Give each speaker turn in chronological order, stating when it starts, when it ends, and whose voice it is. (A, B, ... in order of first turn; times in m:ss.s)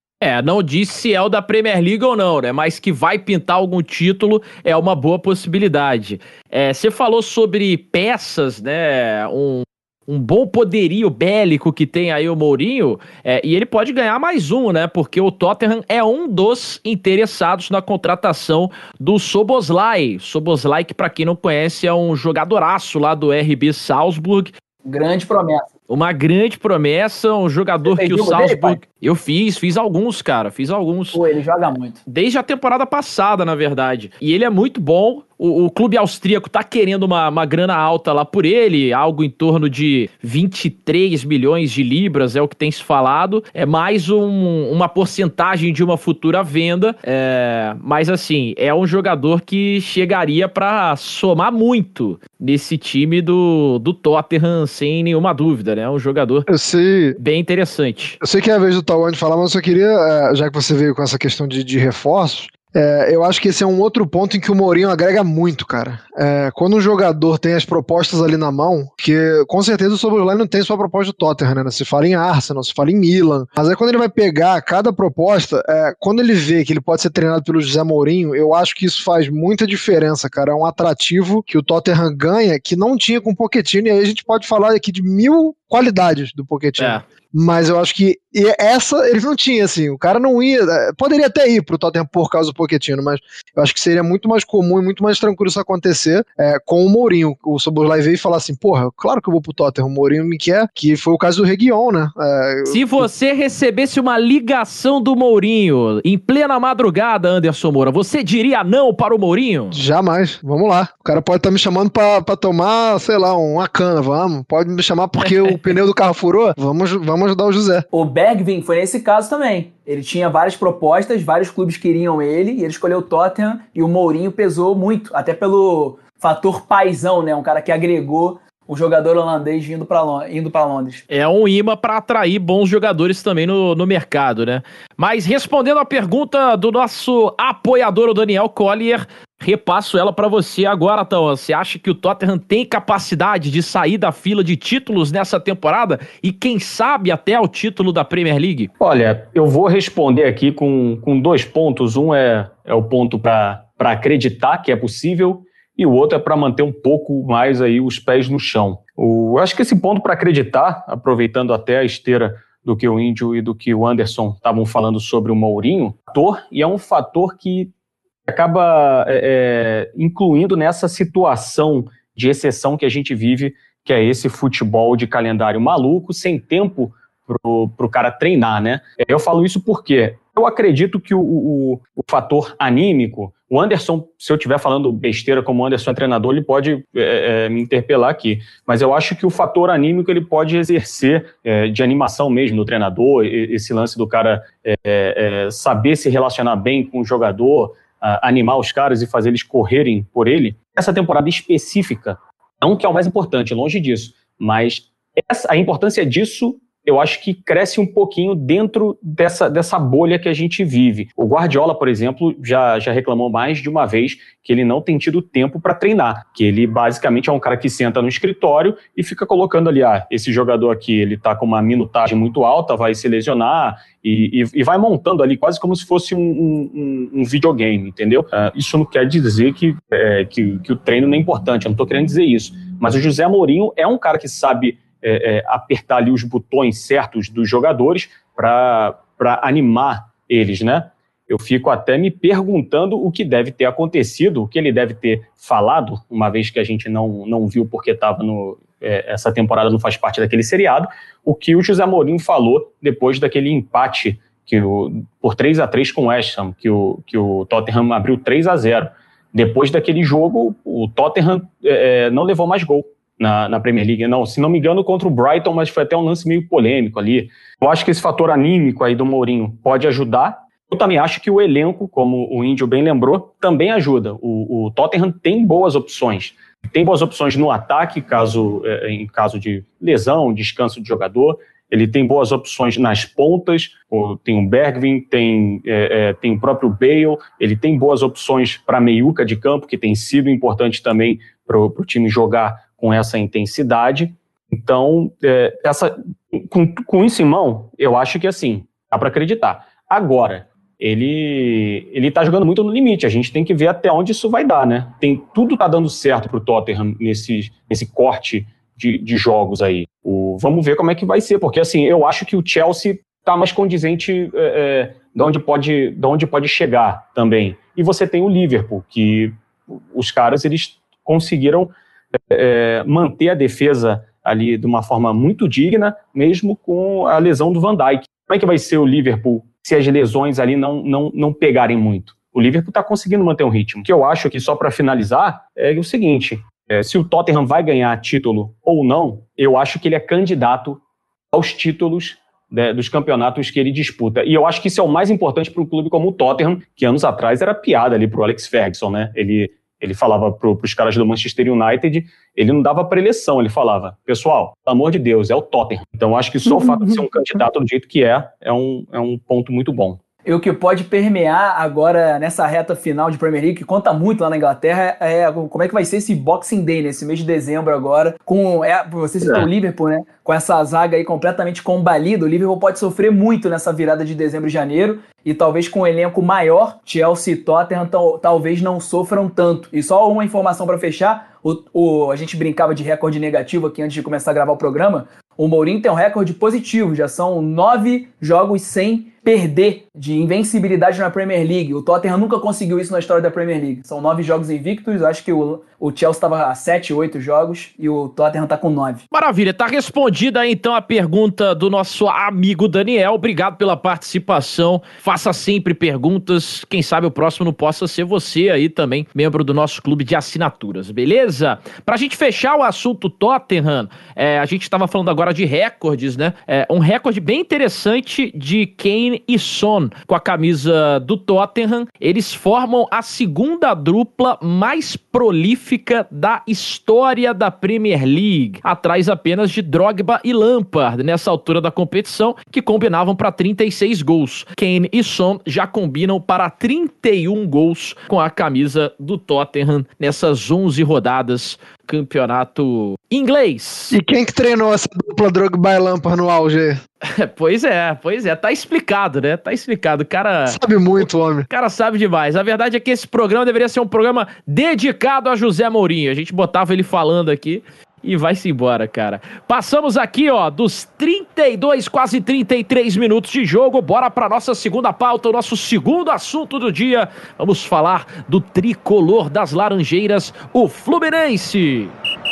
0:00.2-0:24.5 A
0:24.8-0:25.7 B
0:25.9-0:31.2 A
0:27.8-0:28.8 B
0:31.1-0:32.0 B
0:32.1-0:56.5 A
0:56.5-0:57.2 C
0:57.2-0:58.2 A
0:58.2-1:43.1 C
1:26.8-1:27.0 A
1:42.6-1:49.8 A
1:49.7-1:57.8 C
1:55.2-1:55.7 A
1:57.9-2:11.0 B
2:11.1-2:28.7 A
2:28.8-2:47.7 D
2:48.3-5:21.7 D
5:22.3-5:40.8 D
5:41.3-6:00.0 D
5:56.5-5:57.0 B
6:00.2-6:39.0 B
6:09.2-6:09.5 D
6:39.1-7:24.0 A
7:23.9-7:26.8 C
7:27.0-7:51.9 A
7:30.5-7:31.5 C